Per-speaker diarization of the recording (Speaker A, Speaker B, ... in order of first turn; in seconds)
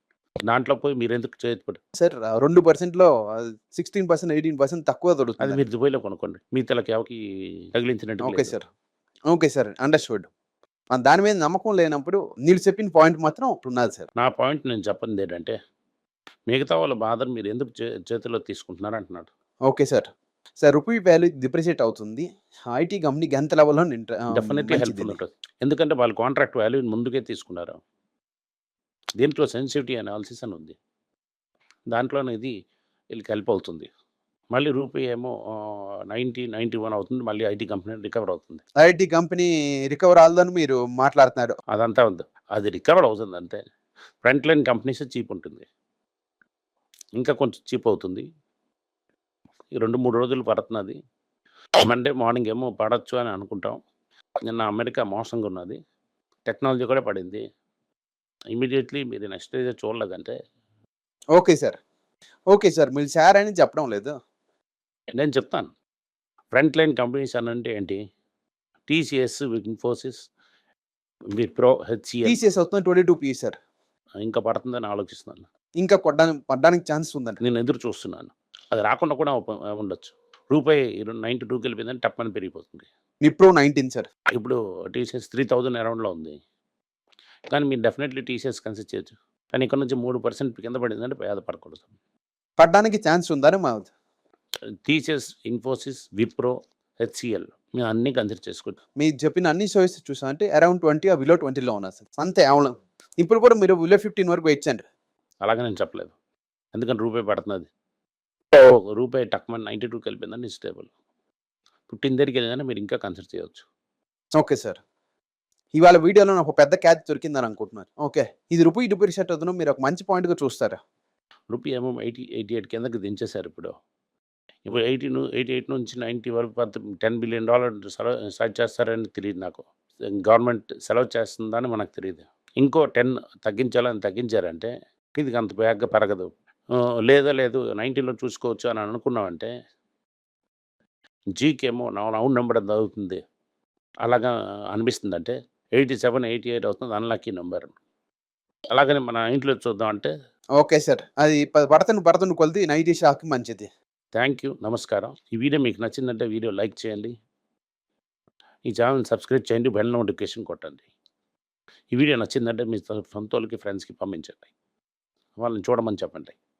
Speaker A: 0.5-1.8, 5.4-7.2, 7.7-8.6, 14.2-15.5, 16.5-19.3, 24.3-27.8, 29.2-30.8, 31.9-32.5, 33.1-33.9, 34.5-38.6, 41.7-43.6, 44.2-45.6, 47.1-48.2, 49.8-51.0, 51.8-53.8, 54.4-55.8, 56.5-57.4, 58.5-60.3, 65.1-65.7, 66.5-68.0, 68.9-70.2, 71.3-72.4, 74.2-75.5, 77.4-82.9, 84.3-86.3, 87.5-91.8, 94.8-98.8, 105.4-106.1, 106.7-107.7, 108.5-110.9, 111.9-113.6, 121.5-123.7, 124.7-129.7, 130.2-136.3, 137.1-139.5, 141.3-143.2, 144.0-147.8, 148.7-150.1, 154.1-157.1, 158.7-160.8, 161.9-164.5, 165.4-166.3
Speaker B: 1.9-5.6, 8.2-8.6, 9.3-10.3, 10.9-14.1, 19.7-20.1, 20.6-25.2, 38.8-41.6, 61.4-61.8, 62.5-64.1, 72.2-73.5, 75.8-77.4, 83.2-84.1, 92.6-93.9, 99.0-104.8, 114.3-114.8, 115.7-120.8, 150.6-153.7